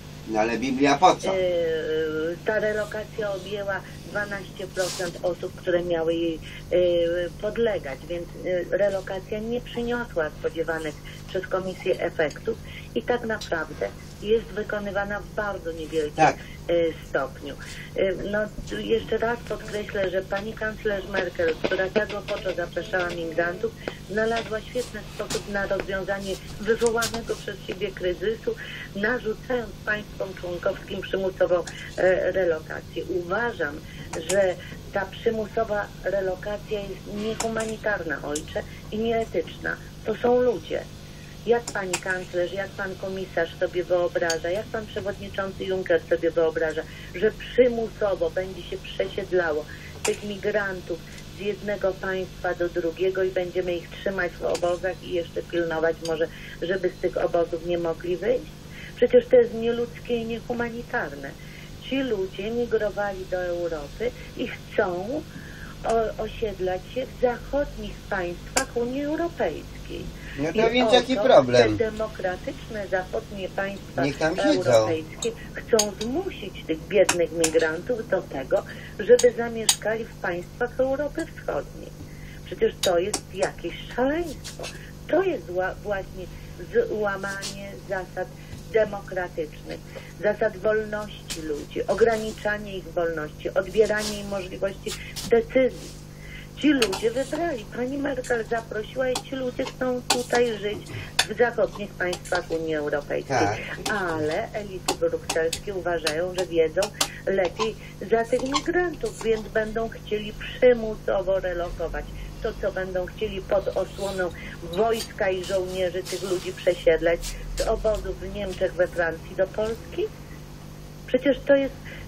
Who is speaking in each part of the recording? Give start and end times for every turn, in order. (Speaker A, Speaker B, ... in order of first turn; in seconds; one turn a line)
Speaker A: 0.3-1.4
Speaker B: 1.2-40.9
Speaker B: 41.4-65.2
Speaker B: 65.8-81.9
Speaker A: 70.4-71.8
Speaker A: 74.0-74.9
Speaker B: 82.5-95.9
Speaker B: 96.5-120.1
Speaker A: 103.3-103.6
Speaker B: 121.1-121.7